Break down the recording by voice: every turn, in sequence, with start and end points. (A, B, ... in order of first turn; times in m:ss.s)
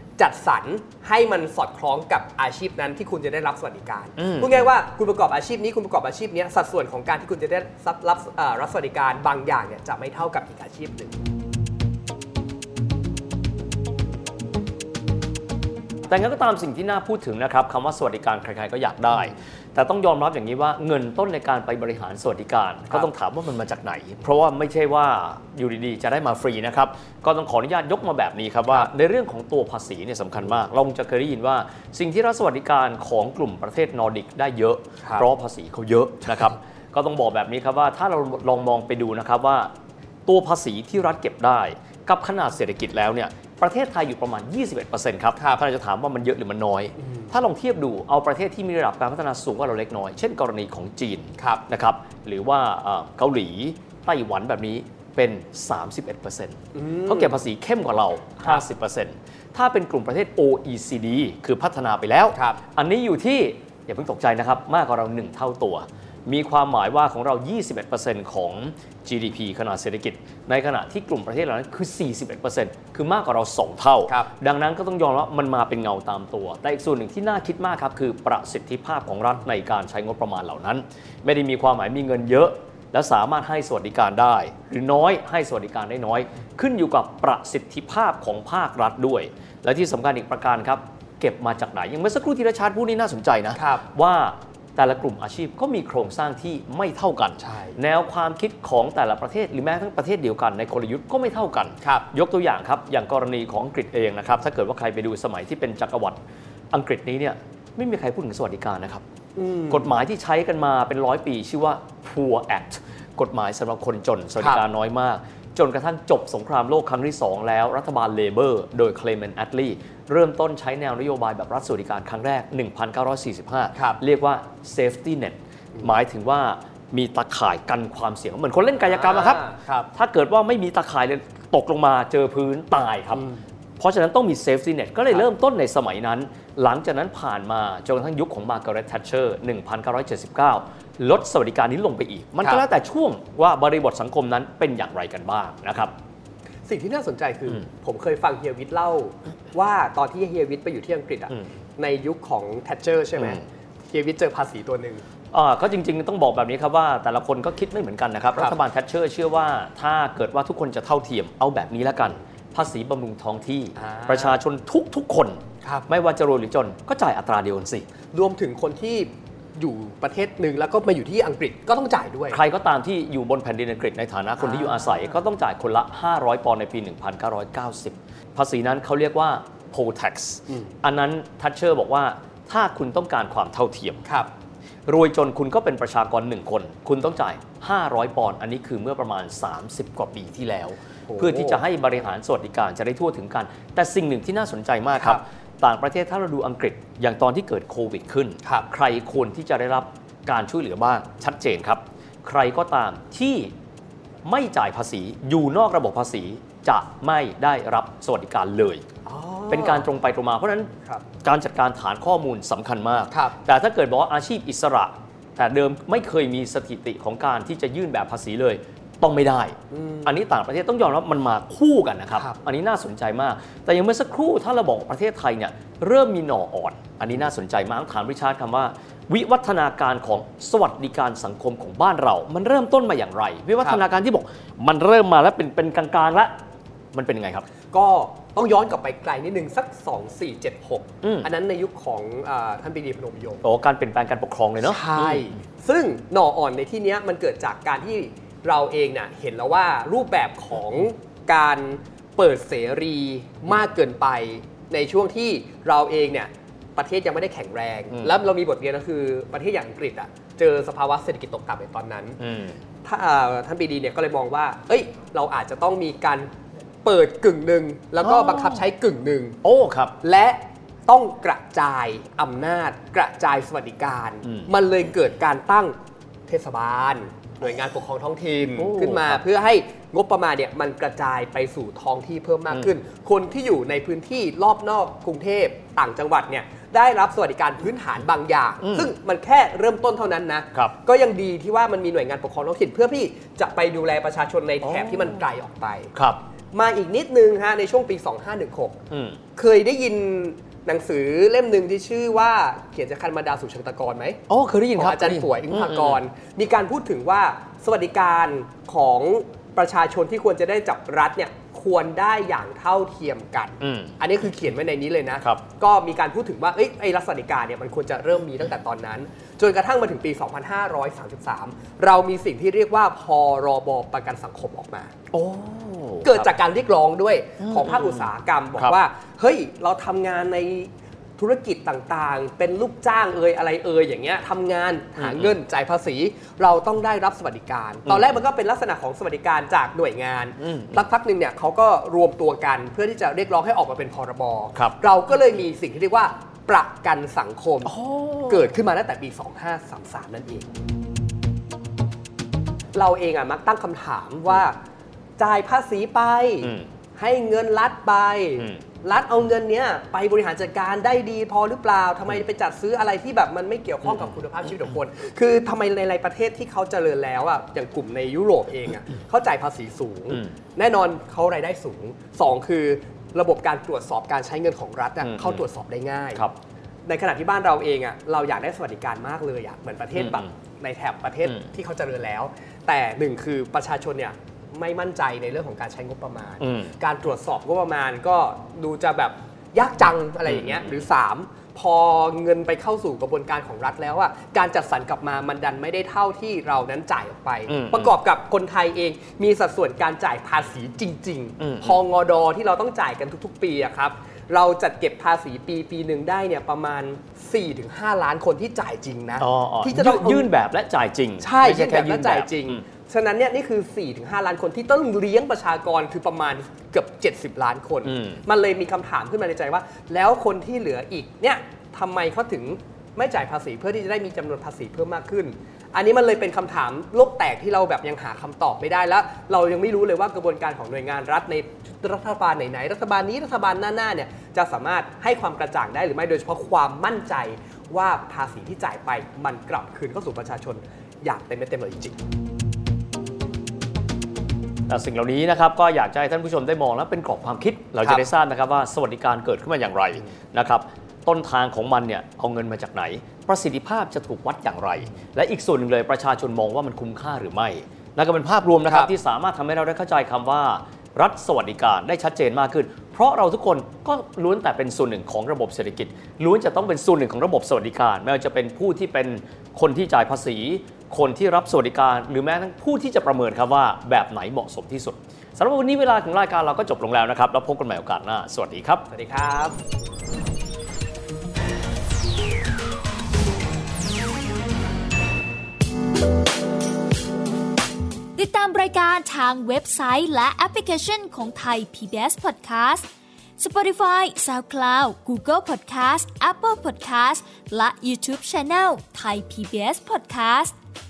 0:00.2-0:11.2 A
0:04.2-0:04.6 B
0:16.1-0:39.7 B
0:40.2-1:46.2 B
0:51.4-0:51.6 A
0:56.7-0:57.4 A
1:33.5-1:33.8 A
1:37.4-1:37.8 A
1:46.7-1:49.0 B
1:49.4-1:49.9 A
1:49.7-2:25.9 B
2:03.7-2:04.0 A
2:08.8-2:09.9 A
2:13.1-2:13.4 A
2:26.6-2:35.0 A
2:35.3-2:47.8 B
2:43.8-2:44.4 A
2:48.1-2:52.4 A
2:52.3-3:04.0 B
2:54.4-2:54.9 A
3:00.5-3:00.7 A
3:04.0-3:04.3 A
3:04.9-3:23.5 B
3:11.1-3:11.6 A
3:24.2-3:28.8 B
3:29.0-3:29.9 A
3:29.5-3:30.7 B
3:31.2-3:56.3 B
3:33.1-3:33.4 A
3:39.7-3:40.1 A
3:56.9-3:57.4 B
3:57.7-4:03.4 A
4:01.0-4:01.3 B
4:03.4-4:05.3 B
4:04.6-4:22.2 A
4:22.2-4:22.6 B
4:22.8-4:26.3 A
4:26.8-4:29.4 A
4:28.0-4:28.6 B
4:29.4-4:29.9 B
4:30.0-4:35.8 A
4:34.2-4:34.5 B
4:36.3-4:55.9 A
4:38.6-4:39.2 B
4:48.6-4:48.9 B
4:54.6-4:55.2 B
4:55.9-4:56.2 B
4:56.5-4:58.8 A
4:58.9-4:59.2 B
4:59.3-5:04.2 A
5:04.3-5:06.0 B
5:04.8-5:24.9 A
5:13.6-5:13.9 B
5:25.1-5:26.3 B
5:26.0-5:47.7 A
5:27.4-5:28.8 B
5:35.0-5:35.3 B
5:37.9-5:38.2 B
5:40.4-5:40.8 B
5:47.6-5:48.5 B
5:48.3-5:50.5 A
5:52.7-5:54.6 A
5:55.2-6:16.2 A
6:03.8-6:04.1 B
6:15.0-6:15.4 B
6:16.8-6:50.3 A
6:19.9-6:20.3 B
6:26.4-6:26.8 B
6:30.3-6:30.8 B
6:37.5-6:37.9 B
6:41.4-6:41.8 B
6:49.2-6:52.6 B
6:51.2-7:22.0 A
6:57.8-6:58.2 B
7:24.7-7:58.8 B
7:38.6-7:38.9 A
7:58.9-7:59.6 A
8:08.2-8:12.8 C
8:13.4-8:20.5 C